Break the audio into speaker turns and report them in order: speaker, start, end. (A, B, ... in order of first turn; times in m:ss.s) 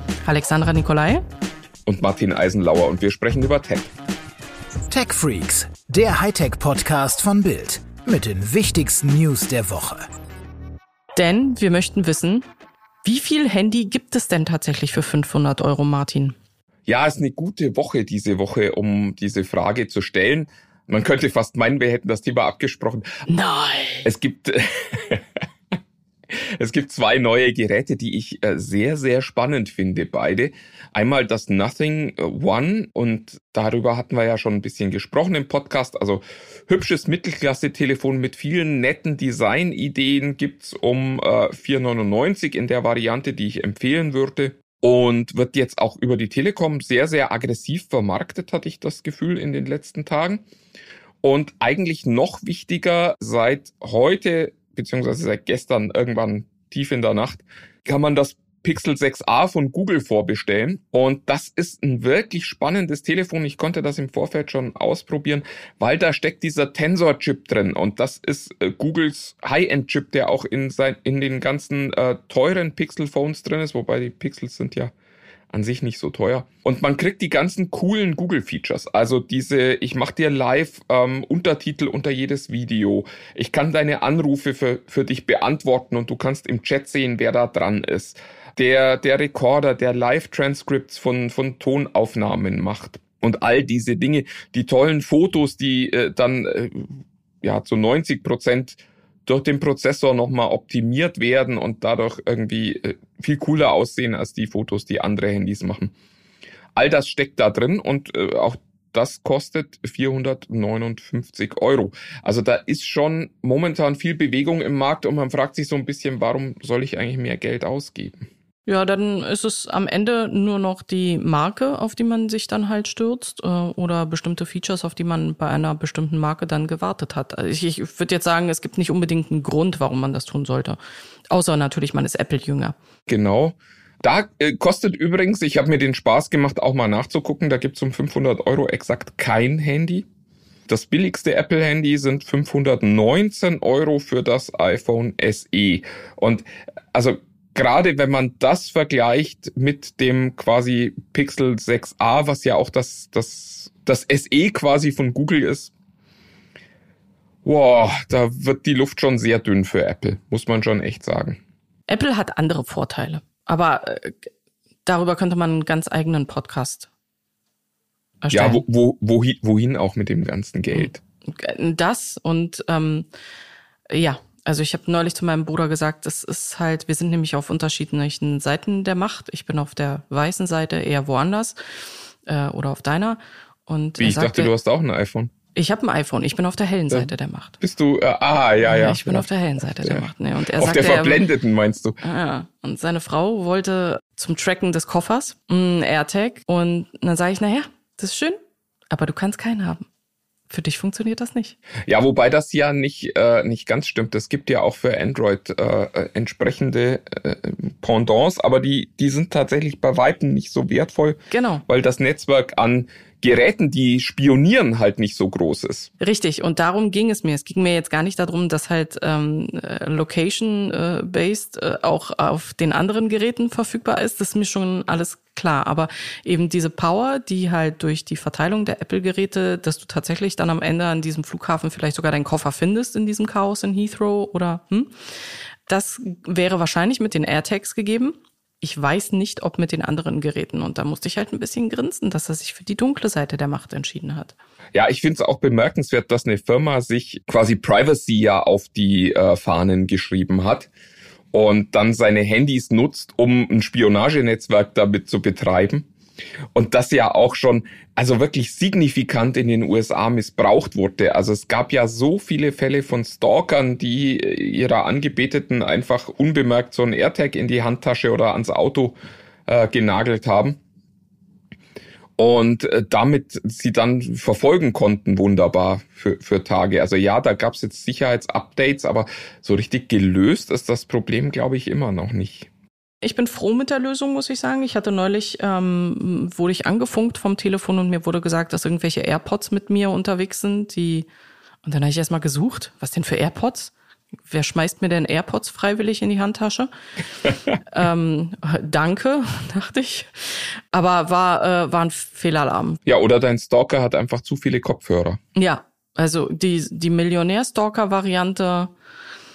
0:00.2-0:01.2 A
0:01.8-0:03.9 B
0:04.9-0:10.1 C
0:11.2-0:12.4 A
0:13.0-0:16.3 A
0:16.9-0:23.1 B
0:23.3-0:24.1 A
0:24.0-0:25.2 B
0:26.3-0:50.4 B
0:51.2-1:14.9 B
1:15.5-1:45.9 B
1:46.8-1:58.2 B
1:58.6-2:10.8 A
2:11.3-2:12.7 A
2:13.1-2:20.0 B
2:20.7-2:35.7 B
2:37.4-2:41.4 B
2:41.9-2:44.3 A
2:44.8-2:46.9 A
2:48.2-2:48.6 A
2:48.3-2:51.0 B
2:50.7-2:53.1 A
2:53.9-3:01.6 A
3:02.3-3:04.5 A
3:04.0-3:05.3 B
3:05.5-3:07.6 A
3:06.9-3:12.0 B
3:08.6-3:11.3 A
3:12.0-3:18.4 A
3:18.9-3:19.8 A
3:20.5-3:21.6 A
3:21.8-3:35.9 B
3:31.3-3:31.6 A
3:36.0-3:54.9 A
3:55.7-4:04.3 A
4:04.7-4:10.7 B
4:11.3-4:15.9 B
4:16.5-4:30.6 B
4:32.2-4:42.5 B
4:43.0-4:51.1 A
4:51.6-4:53.7 A
4:54.3-4:56.7 A
4:57.6-5:02.8 A
5:02.8-5:05.2 B
5:05.4-5:08.7 A